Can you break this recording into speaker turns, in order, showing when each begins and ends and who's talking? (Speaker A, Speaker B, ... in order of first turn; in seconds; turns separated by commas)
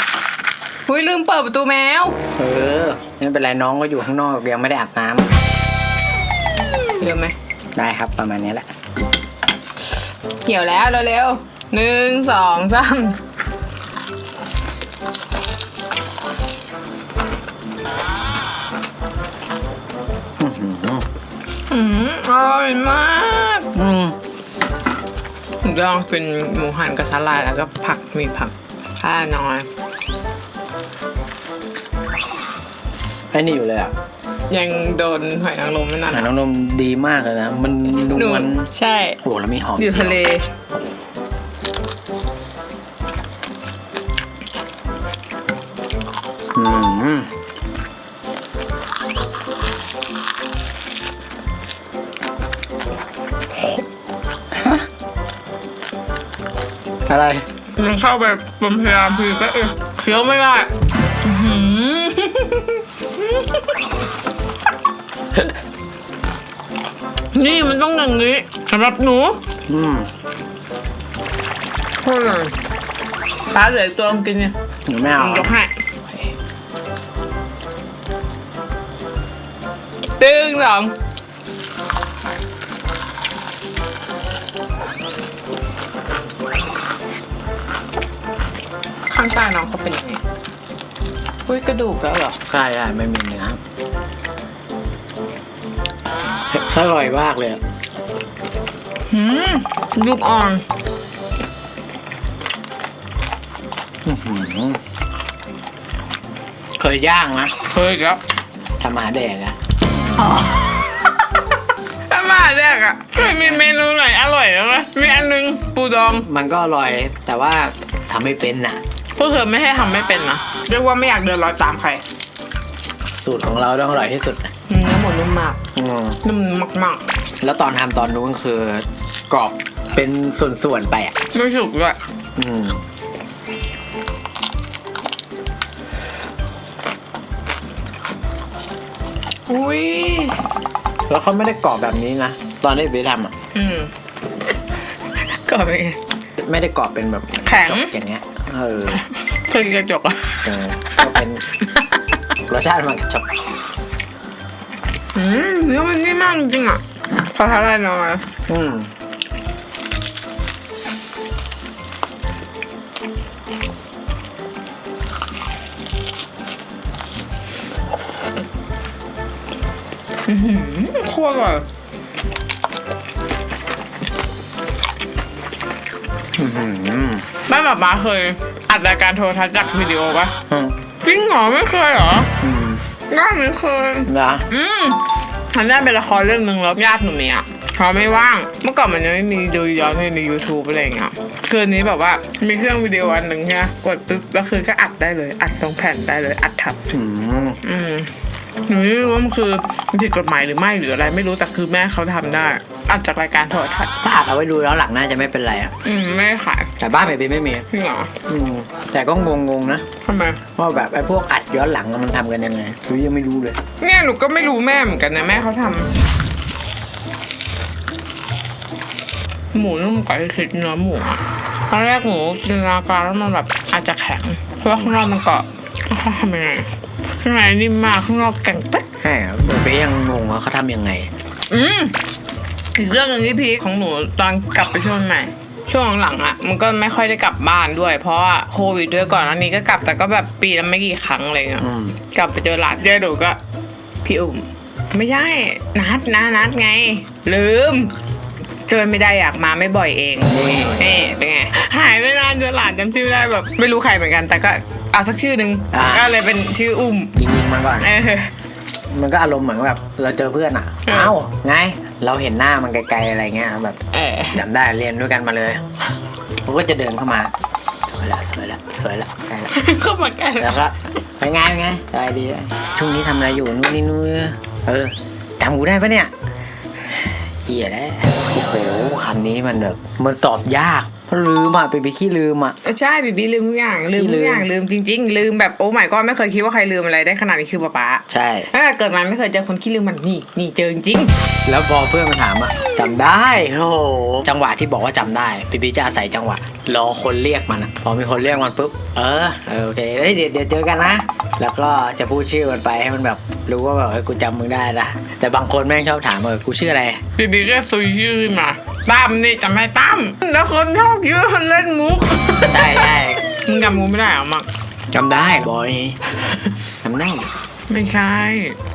Speaker A: 0.9-2.2, Speaker B: 2.4-5.3, Speaker A: 7.0-7.3, Speaker B: 7.7-8.7, Speaker A: 10.4-13.2, Speaker B: 20.4-21.0, Speaker A: 21.7-23.7, Speaker B: 23.7-24.1, Speaker A: 25.6-29.7, Speaker B: 33.3-33.9, Speaker A: 34.5-36.3, Speaker B: 36.1-38.7, Speaker A: 38.0-39.2, Speaker B: 39.2-40.2, Speaker A: 39.8-40.5, Speaker B: 46.5-47.3, Speaker B: 57.0-57.4, Speaker A: 57.7-63.7, Speaker A: 67.3-69.4, Speaker B: 69.7-70.1, Speaker A: 72.0-72.6, Speaker A: 73.5-74.5, Speaker B: 74.8-75.5, Speaker A: 75.1-75.7, Speaker A: 80.2-80.9, Speaker A: 89.1-90.2, Speaker A: 91.5-92.4, Speaker B: 92.5-93.6, Speaker B: 96.5-97.6, Speaker A: 99.1-100.6, Speaker B: 104.0-104.8, Speaker B: 106.8-107.5, Speaker A: 107.7-108.2, Speaker B: 108.8-109.5, Speaker A: 110.2-111.5, Speaker A: 112.1-116.3, Speaker B: 116.1-118.8, Speaker A: 119.2-122.0, Speaker B: 123.2-124.5, Speaker A: 124.7-125.6, Speaker B: 125.7-126.2, Speaker A: 126.2-127.1, Speaker B: 127.4-131.2, Speaker A: 131.3-132.0, Speaker B: 132.3-132.8, Speaker A: 139.5-140.4, Speaker B: 141.1-143.3, Speaker A: 143.5-143.9, Speaker A: 145.2-146.0, Speaker B: 146.4-149.0, Speaker A: 147.4-147.9, Speaker A: 148.9-151.2, Speaker B: 150.4-151.4, Speaker B: 152.4-153.2, Speaker A: 155.1-158.3, Speaker B: 158.5-158.9, Speaker A: 170.2-171.7, Speaker B: 176.3-177.2, Speaker A: 177.4-180.3, Speaker B: 180.5-180.7, Speaker A: 181.0-182.3, Speaker B: 182.4-182.8, Speaker A: 183.1-196.8, Speaker B: 184.1-184.5, Speaker B: 196.9-197.6, Speaker A: 197.6-203.9, Speaker B: 204.0-205.7, Speaker A: 205.8-206.7, Speaker B: 206.8-207.7, Speaker A: 207.7-208.1, Speaker B: 208.2-209.8, Speaker A: 210.0-210.4, Speaker B: 210.5-213.6, Speaker A: 213.8-215.9, Speaker A: 219.5-228.9, Speaker B: 229.0-231.1, Speaker A: 231.5-232.0, Speaker A: 232.8-243.4, Speaker B: 241.6-242.0, Speaker A: 244.0-247.9, Speaker A: 248.7-257.1, Speaker B: 250.3-250.9, Speaker B: 255.7-256.1, Speaker B: 257.1-257.9, Speaker A: 257.8-258.3, Speaker B: 258.9-265.6, Speaker A: 260.9-261.1, Speaker A: 263.9-264.4, Speaker B: 266.4-267.3, Speaker B: 267.9-269.6, Speaker A: 269.5-270.6, Speaker B: 270.4-276.1, Speaker B: 276.9-282.6, Speaker A: 282.6-291.1, Speaker B: 283.9-284.5, Speaker B: 288.1-288.5, Speaker B: 291.4-307.0, Speaker A: 307.1-312.9, Speaker B: 312.4-313.2, Speaker A: 313.4-314.5, Speaker B: 314.9-316.1, Speaker B: 316.8-317.3, Speaker A: 317.7-318.6